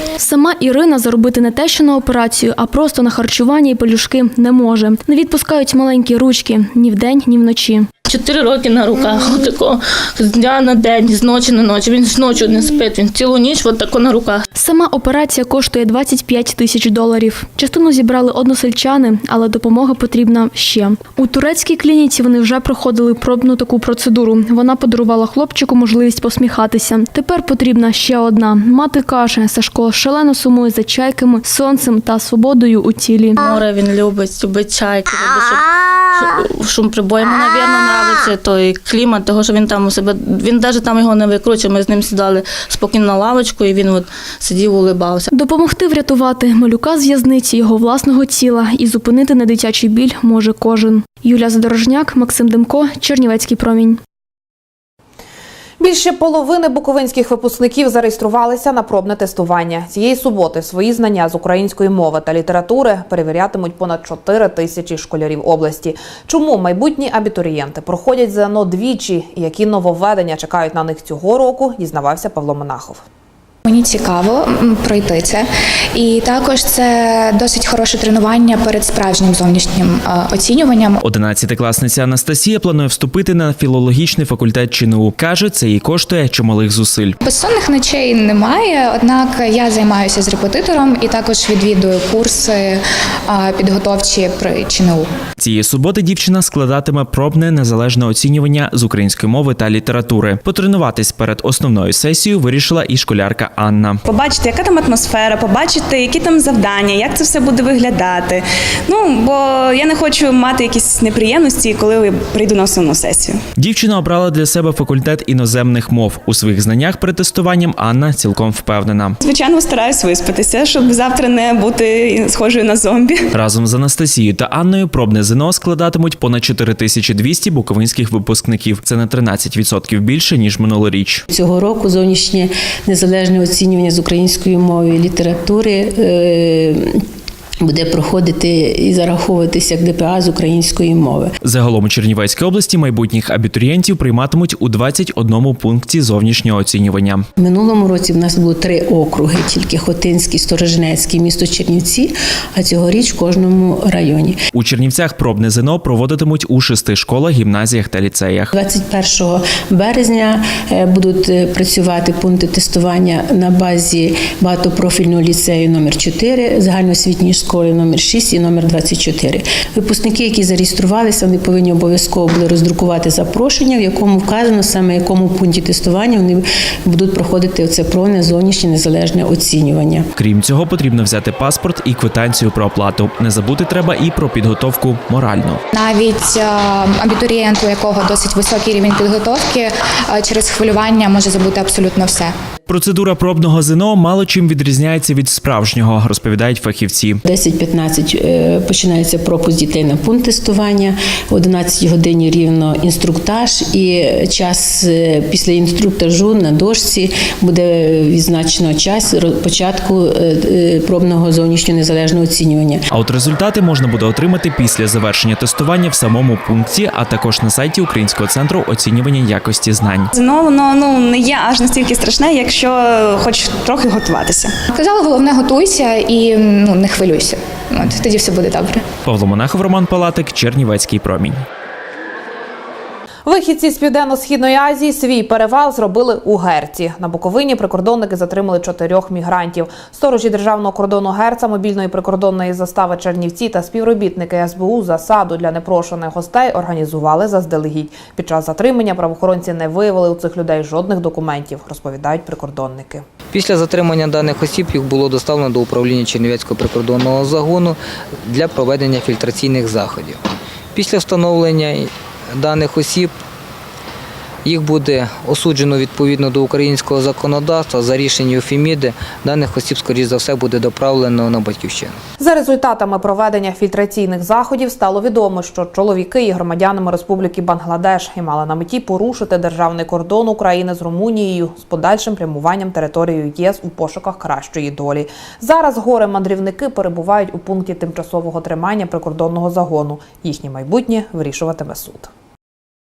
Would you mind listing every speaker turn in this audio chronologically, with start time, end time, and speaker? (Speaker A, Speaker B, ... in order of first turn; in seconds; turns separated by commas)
Speaker A: 0.2-7.9, Speaker B: 8.1-14.4, Speaker A: 14.5-33.4, Speaker B: 33.4-45.3, Speaker A: 45.3-54.0, Speaker C: 55.8-73.0, Speaker D: 73.6-81.0, Speaker E: 81.0-87.2, Speaker D: 87.2-95.1, Speaker E: 95.4-104.0, Speaker F: 104.0-113.4, Speaker E: 113.6-119.2, Speaker F: 119.2-123.2, Speaker E: 123.3-131.2, Speaker G: 131.3-137.0, Speaker G: 137.6-141.3, Speaker E: 141.4-147.2, Speaker G: 147.4-154.4, Speaker E: 154.5-158.5, Speaker G: 158.5-180.1, Speaker E: 180.2-185.6, Speaker D: 185.7-192.3, Speaker E: 192.7-197.2, Speaker G: 197.2-212.8, Speaker E: 212.9-220.1, Speaker F: 220.1-224.5, Speaker D: 224.7-228.8, Speaker E: 229.0-231.4, Speaker C: 233.2-253.0, Speaker H: 253.3-260.2, Speaker H: 260.7-263.1, Speaker H: 264.4-272.0, Speaker C: 272.2-292.1